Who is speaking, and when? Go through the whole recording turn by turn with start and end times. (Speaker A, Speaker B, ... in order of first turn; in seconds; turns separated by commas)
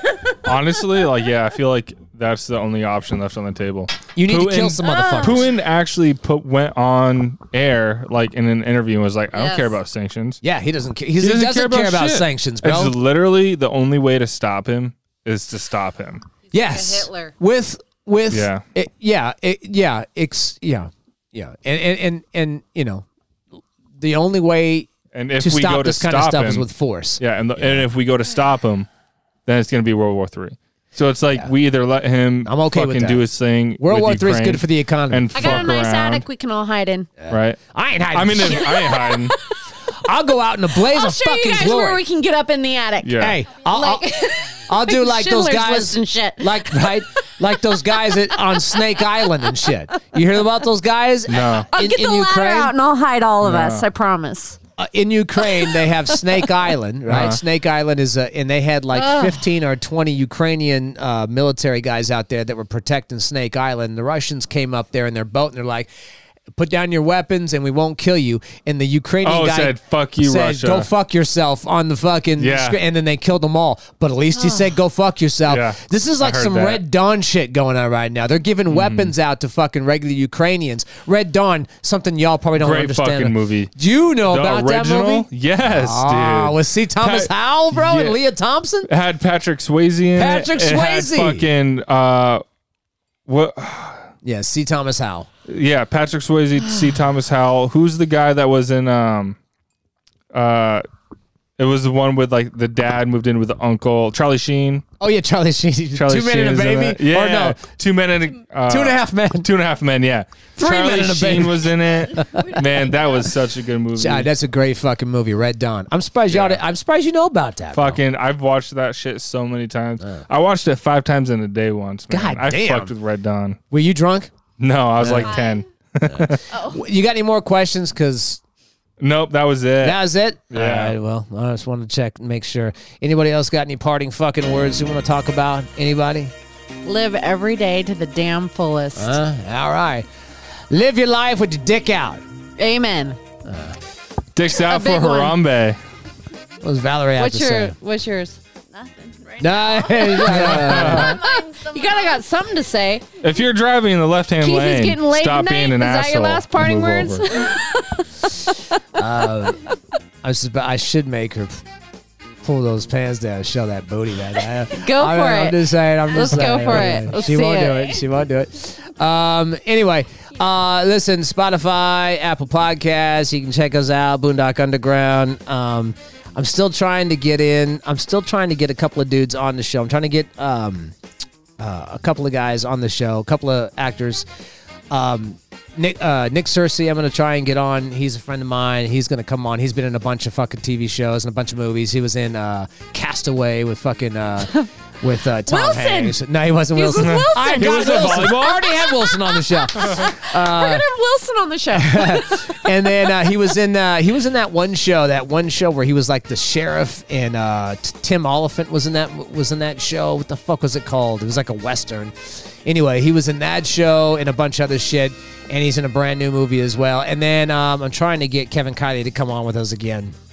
Speaker A: 0.4-10.4, Speaker B: 4.2-5.5, Speaker C: 4.8-5.4, Speaker C: 9.3-9.7, Speaker B: 10.4-12.9, Speaker A: 11.2-16.2, Speaker C: 16.5-17.3, Speaker B: 16.5-23.1, Speaker A: 18.3-18.6, Speaker B: 24.0-27.9, Speaker A: 25.1-28.9, Speaker A: 29.4-36.2, Speaker B: 32.4-33.2, Speaker B: 33.8-35.7, Speaker C: 35.3-37.1, Speaker B: 37.2-39.0, Speaker A: 37.3-37.6, Speaker A: 38.1-39.3, Speaker C: 38.6-39.4, Speaker B: 39.9-42.0, Speaker C: 40.8-49.6, Speaker A: 43.0-43.4, Speaker B: 43.2-44.1, Speaker B: 44.7-52.7, Speaker A: 51.3-51.7, Speaker C: 51.7-54.6, Speaker A: 53.4-53.8, Speaker B: 54.8-65.9, Speaker C: 55.4-56.4, Speaker A: 57.1-57.4, Speaker C: 58.9-59.4, Speaker B: 66.5-88.9, Speaker A: 69.2-70.9, Speaker A: 72.4-72.8, Speaker A: 75.5-76.8, Speaker A: 78.7-79.1, Speaker A: 82.6-83.7, Speaker A: 84.2-88.2, Speaker A: 88.9-92.4, Speaker B: 90.2-91.5, Speaker A: 93.3-94.0, Speaker B: 94.2-95.3, Speaker A: 95.5-99.4, Speaker A: 100.3-100.8, Speaker A: 101.6-104.8, Speaker B: 105.0-107.6, Speaker A: 105.9-114.3, Speaker B: 108.7-109.5, Speaker B: 110.6-112.4, Speaker D: 112.2-112.7, Speaker B: 114.0-118.0, Speaker A: 116.3-116.6, Speaker A: 117.7-123.6, Speaker B: 122.1-122.9, Speaker B: 123.7-124.3, Speaker A: 124.6-126.4, Speaker B: 125.0-125.4, Speaker D: 125.2-125.6, Speaker B: 126.1-128.4, Speaker D: 126.5-126.8, Speaker A: 129.0-130.0, Speaker B: 129.8-136.3, Speaker A: 130.5-130.9, Speaker C: 136.8-139.2, Speaker B: 138.9-140.1, Speaker B: 140.7-142.2, Speaker C: 142.6-143.2, Speaker B: 143.4-143.8, Speaker A: 144.3-145.8, Speaker C: 144.5-145.3, Speaker B: 146.6-147.7, Speaker C: 147.2-148.4, Speaker D: 148.7-152.3, Speaker B: 149.4-151.2, Speaker C: 149.9-153.0, Speaker A: 150.2-151.2, Speaker A: 153.2-157.3, Speaker C: 154.4-158.8, Speaker B: 158.9-159.6, Speaker B: 160.2-161.6, Speaker B: 162.4-180.9, Speaker C: 164.7-168.0, Speaker B: 181.6-184.2, Speaker B: 184.9-200.9, Speaker C: 195.4-196.2, Speaker C: 196.7-203.1, Speaker A: 197.0-198.6, Speaker B: 201.7-220.2